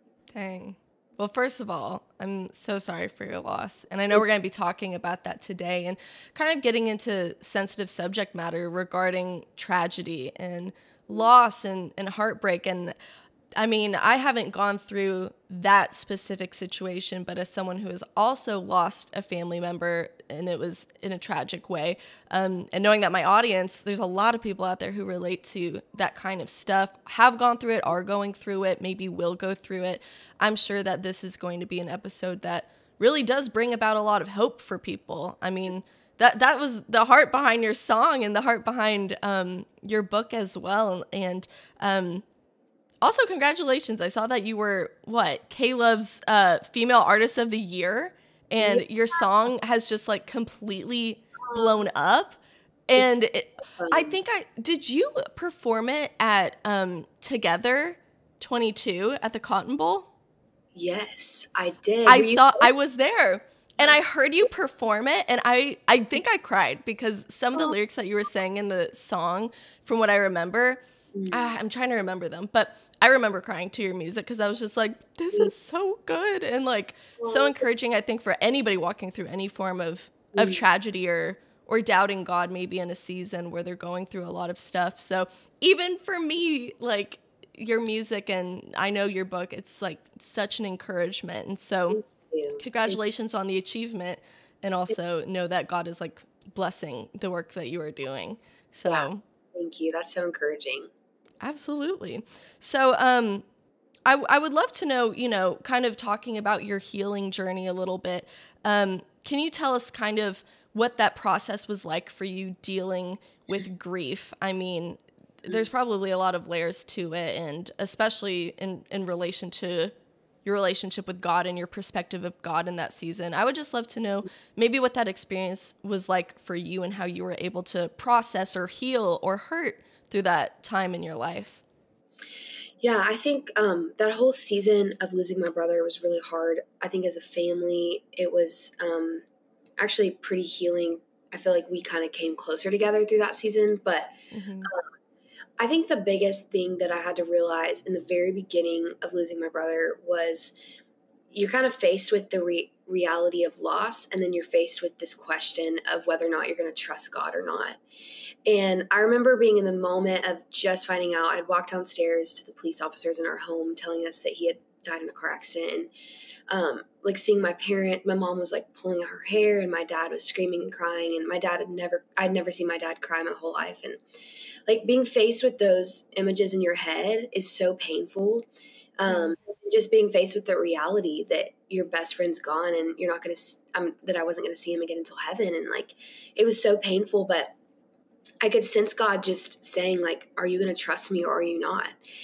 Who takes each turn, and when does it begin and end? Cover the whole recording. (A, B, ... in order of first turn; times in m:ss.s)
0:00.3-0:12.9 A
0:13.6-0:42.2 A
0:43.0-1:00.1 A
0:53.8-0:54.1 B
1:00.7-1:02.7 B
1:02.1-1:32.0 A
1:11.1-1:11.5 B
1:17.2-1:17.6 B
1:20.3-1:20.6 B
1:31.9-1:32.6 B
1:32.6-1:39.2 A
1:38.8-1:40.9 B
1:41.4-1:43.4 A
1:44.0-1:59.9 A
2:00.4-2:11.6 A
2:12.8-2:19.2 B
2:19.8-2:24.1 B
2:24.3-2:24.7 A
2:24.6-2:24.9 B
2:25.6-2:30.5 B
2:31.3-2:37.8 B
2:38.4-2:45.9 B
2:46.5-2:54.0 B
2:54.6-2:58.4 B
2:59.0-3:07.5 B
3:08.4-3:12.0 B